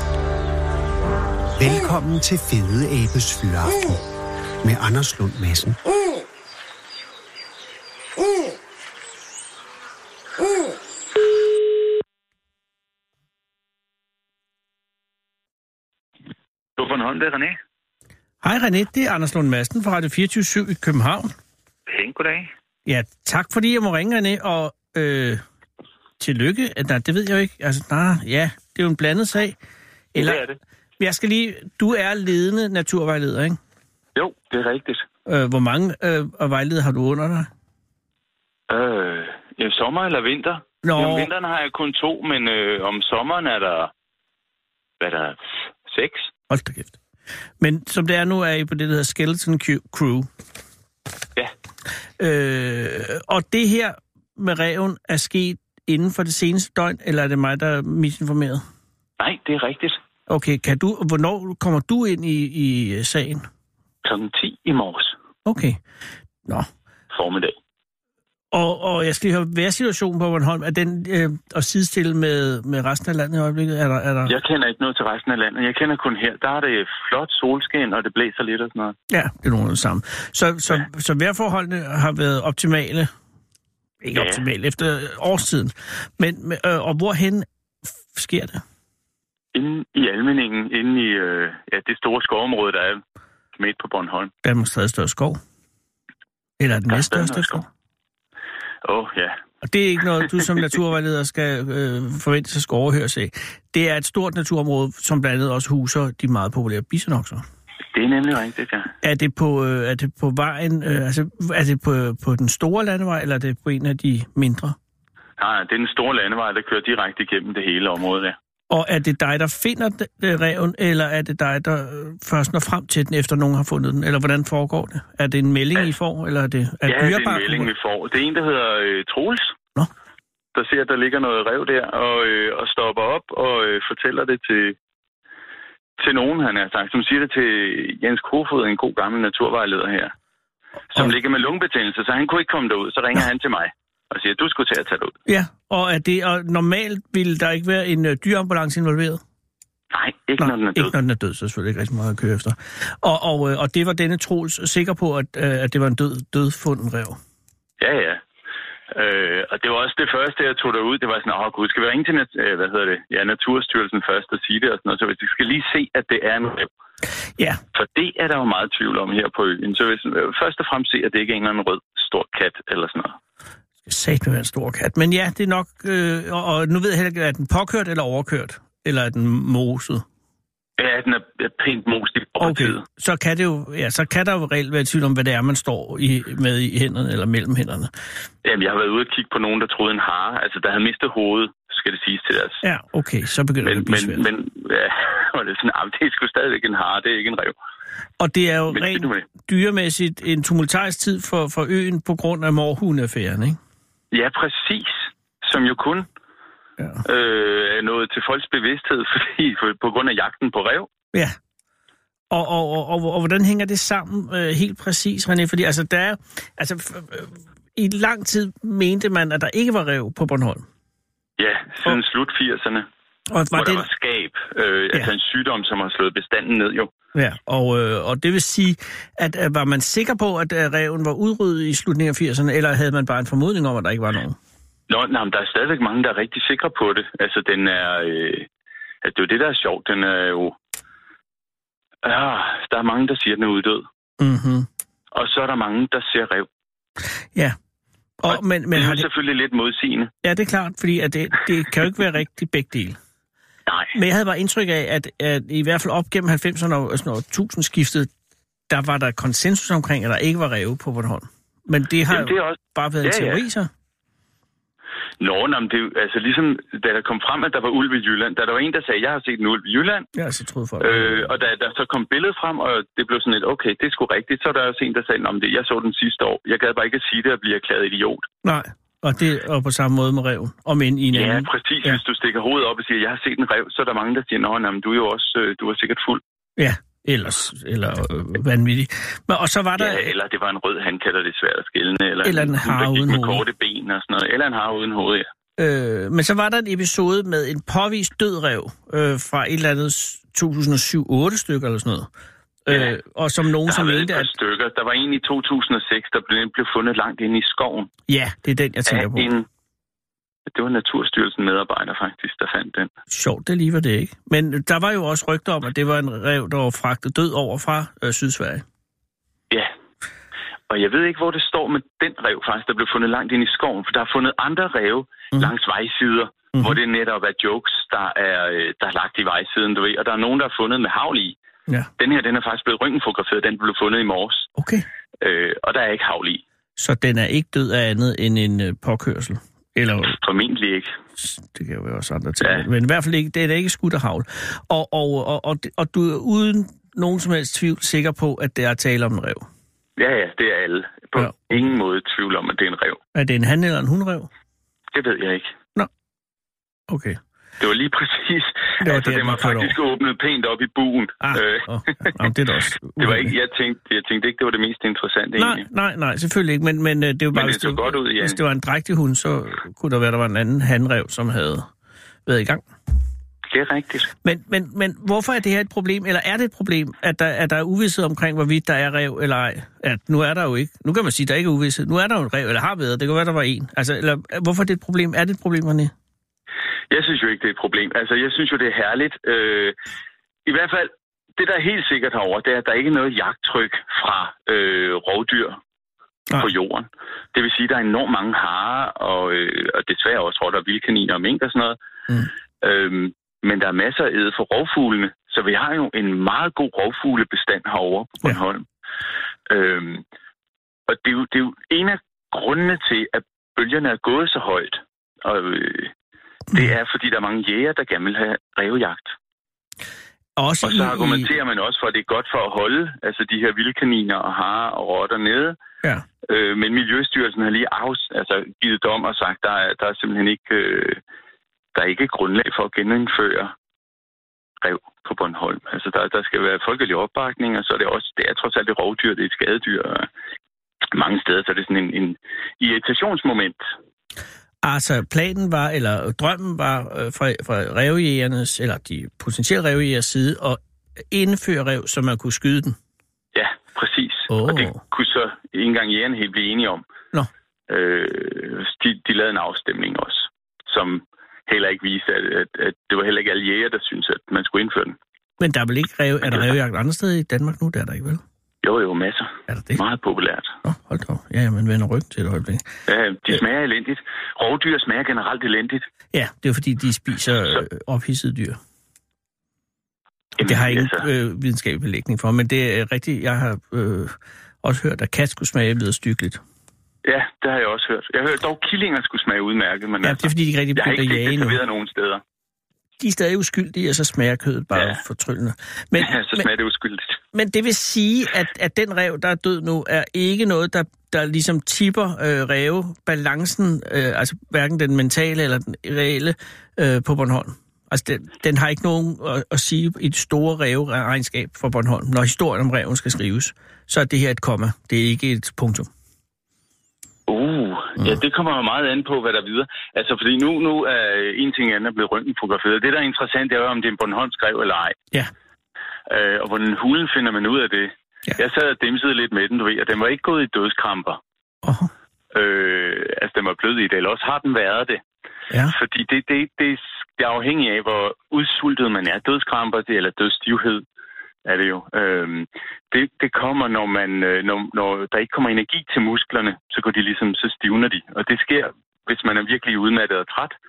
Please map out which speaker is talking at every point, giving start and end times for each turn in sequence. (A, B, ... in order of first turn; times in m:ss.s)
0:01.6-0:04.1 A
0:04.6-0:05.8 A
0:16.8-0:17.6 B
0:18.4-0:21.3 C
0:21.9-0:22.5 B
0:22.8-0:25.4 C
0:26.2-0:29.6 C
0:30.1-0:30.4 C
0:30.1-0:30.6 B
0:31.0-0:33.6 C
0:34.2-0:35.1 B
0:35.2-0:37.5 C
0:38.7-0:43.9 B
0:40.8-0:41.3 C
0:45.0-0:46.3 B
0:46.5-0:47.0 C
0:47.6-0:50.3 C
0:52.2-0:58.6 C
0:59.2-1:00.0 B
1:00.3-1:03.5 C
1:04.0-1:05.2 B
1:05.4-1:05.8 C
1:07.1-1:07.5 B
1:08.5-1:14.3 C
1:14.3-1:19.0 B
1:19.1-1:23.1 C
1:24.0-1:28.6 C
1:24.1-1:24.4 B
1:29.5-1:33.0 B
1:33.6-1:34.3 B
1:34.4-1:35.4 C
1:36.6-1:37.7 C
1:36.9-1:37.6 B
1:38.8-1:39.4 B
1:39.6-1:47.4 C
1:47.9-1:48.9 B
1:49.0-1:54.8 C
1:55.4-1:58.4 B
1:58.7-2:07.7 C
2:06.8-2:09.6 B
2:10.5-2:14.8 B
2:16.0-2:20.1 B
2:20.9-2:25.2 B
2:25.2-2:29.2 C
2:29.9-2:30.9 B
2:30.4-2:37.2 C
2:37.8-2:38.2 B
2:38.9-2:46.7 B
2:47.7-2:53.2 B
2:53.8-3:00.0 C
3:00.8-3:02.8 B
3:02.4-3:07.9 C
3:08.4-3:12.6 B
3:12.6-3:14.2 C
3:13.6-3:17.5 B
3:18.2-3:23.6 C
3:18.7-3:19.2 B
3:24.1-3:26.1 B
3:27.0-3:30.9 B
3:32.3-3:40.6 C
3:41.4-3:42.9 B
3:43.3-3:43.9 C
3:43.5-3:46.9 B
3:47.1-3:54.4 C
3:54.9-3:58.5 B
3:59.0-4:00.6 B
4:02.0-4:03.8 B
4:04.2-4:04.7 C
4:05.1-4:06.5 B
4:08.2-4:09.1 C
4:08.3-4:10.1 B
4:10.2-4:13.0 C
4:13.7-4:13.9 B
4:13.9-4:18.1 C
4:18.7-4:23.7 C
4:22.1-4:23.4 B
4:25.2-4:30.1 B
4:30.1-4:31.3 C
4:30.8-4:38.3 B
4:38.4-4:42.0 C
4:41.1-4:46.2 B
4:46.6-4:50.1 C
4:49.8-4:55.3 B
4:52.2-4:53.4 C
4:55.6-5:02.1 C
5:02.6-5:04.3 C
5:03.6-5:07.9 B
5:08.1-5:09.3 C
5:08.9-5:09.4 B
5:10.5-5:12.9 B
5:13.1-5:18.6 C
5:20.7-5:31.4 B
5:32.0-5:34.5 B
5:34.6-5:34.8 C
5:35.2-5:36.4 B
5:36.8-5:40.2 C
5:40.1-5:40.9 B
5:41.2-5:49.4 C
5:42.4-5:42.6 B
5:50.0-5:53.0 B
5:53.1-5:54.3 C
5:54.9-5:55.5 B
5:56.9-5:57.2 C
5:57.6-6:02.2 B
5:58.8-5:59.7 C
6:01.2-6:03.3 C
6:03.0-6:05.6 B
6:05.4-6:11.7 C
6:07.3-6:08.4 B
6:12.2-6:12.6 C
6:13.5-6:14.1 B
6:14.2-6:25.9 C
6:26.9-6:29.7 B
6:30.4-6:35.6 B
6:36.4-6:41.8 B
6:42.6-6:48.6 B
6:49.5-6:50.0 B
6:50.9-6:55.9 B
6:56.5-6:59.2 B
7:00.4-7:01.3 C
7:00.6-7:05.6 B
7:06.3-7:11.0 B
7:11.7-7:13.5 B
7:14.6-7:20.1 B
7:20.9-7:23.6 B
7:24.6-7:30.6 C
7:31.1-7:32.8 C
7:33.3-7:36.8 B
7:34.3-7:34.8 C
7:37.7-7:45.0 B
7:45.4-7:48.2 C
7:46.2-7:46.5 B
7:48.6-7:50.5 B
7:49.5-7:49.8 C
7:50.6-7:52.7 C
7:52.9-7:55.8 B
7:56.1-7:58.6 C
8:00.4-8:01.1 B
8:00.4-8:06.4 C
8:07.0-8:12.2 B
8:10.0-8:11.6 C
8:13.0-8:16.4 C
8:14.7-8:15.0 B
8:16.0-8:17.2 B
8:17.3-8:35.9 C
8:37.3-8:45.0 B
8:46.1-8:51.2 B
8:51.6-8:51.9 C
8:52.3-8:55.0 B
8:55.7-9:00.8 B
9:01.4-9:10.5 B